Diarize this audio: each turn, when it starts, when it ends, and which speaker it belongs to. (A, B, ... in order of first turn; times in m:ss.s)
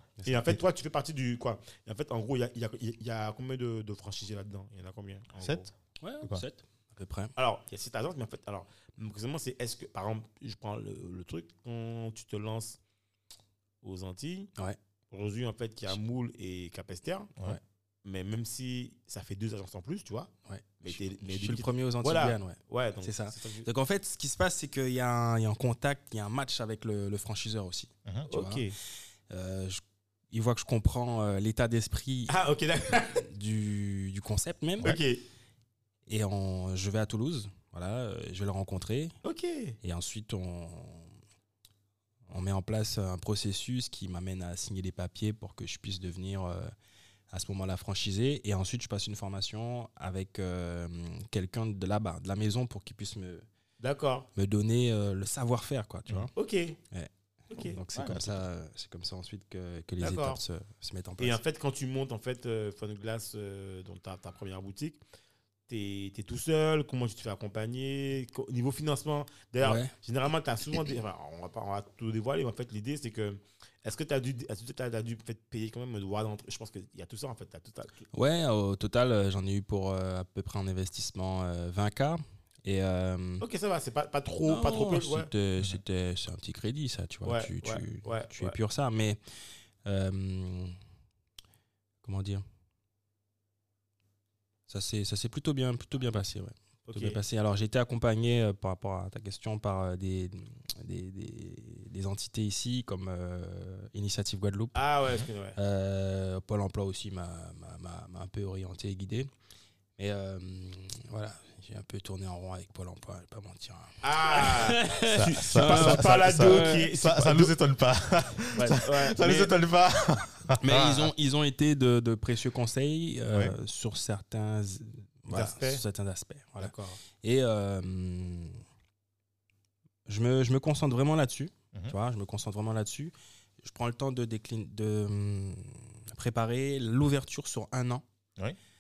0:00.2-0:05.7 A
0:06.0-0:07.3 B
0:07.4-0:12.8 A
0:13.8-0:14.5 A
0:15.1-0:17.3 A
0:18.0-0:23.7 A
0:20.5-0:28.6 B
0:28.3-0:28.7 A
0:29.3-0:32.3 B
0:32.3-0:33.2 A
0:33.2-0:35.0 B
0:34.8-0:35.2 A
0:36.1-0:39.1 B
0:39.2-0:39.8 A
0:39.8-0:41.1 B
0:42.3-0:46.7 B
0:47.3-0:53.5 B
0:53.8-0:54.3 A
0:54.4-0:56.3 B
0:56.4-0:56.8 A
0:56.9-1:01.4 B
0:57.5-0:57.8 A
0:58.0-0:58.5 C
1:00.0-1:00.4 A
1:01.2-1:05.0 A
1:05.7-1:18.1 A
1:09.6-1:09.9 B
1:18.1-1:23.4 B
1:23.4-1:25.3 A
1:24.5-1:30.8 B
1:27.2-1:28.6 A
1:32.0-1:32.4 B
1:34.7-1:44.8 B
1:36.9-1:37.2 A
1:44.8-1:45.6 A
1:45.6-1:49.3 B
1:50.0-1:56.9 B
1:54.0-1:57.5 A
1:55.1-2:01.1 C
1:58.5-1:58.8 B
1:58.7-1:59.5 A
2:00.6-2:08.6 B
2:05.3-2:05.8 A
2:06.6-2:07.0 A
2:10.1-2:18.0 B